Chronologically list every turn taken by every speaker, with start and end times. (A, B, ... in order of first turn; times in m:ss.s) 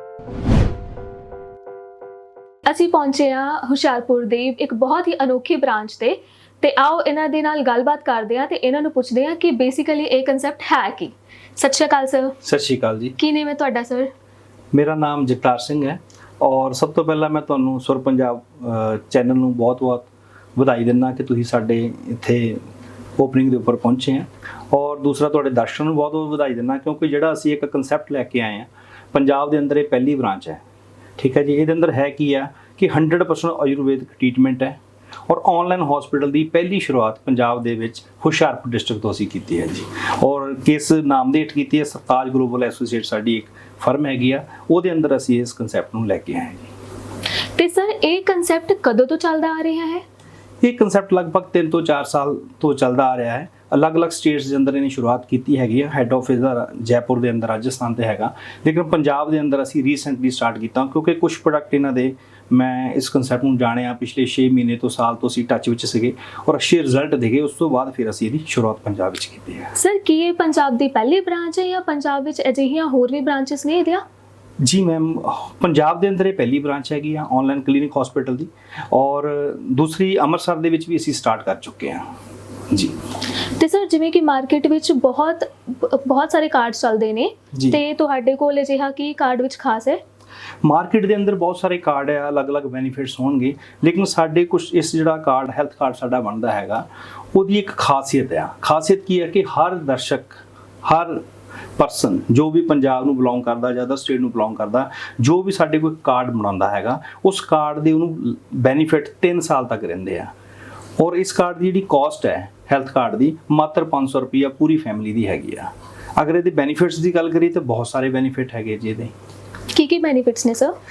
0:02.7-0:12.4 A
0:12.4-0:13.2 B
0:13.2-0:14.1 A
0:14.7-0:22.6 B
0:23.2-0:30.6 B
0:31.2-0:46.7 B
0:47.6-0:50.0 A
0:50.6-1:09.7 B
1:09.8-1:14.0 A
1:14.6-1:22.0 B
1:22.7-1:23.0 B
1:23.6-1:30.0 A
1:27.5-1:27.8 B
1:30.6-1:41.2 B
1:41.8-1:50.3 B
1:51.0-1:59.1 B
1:59.7-2:00.8 A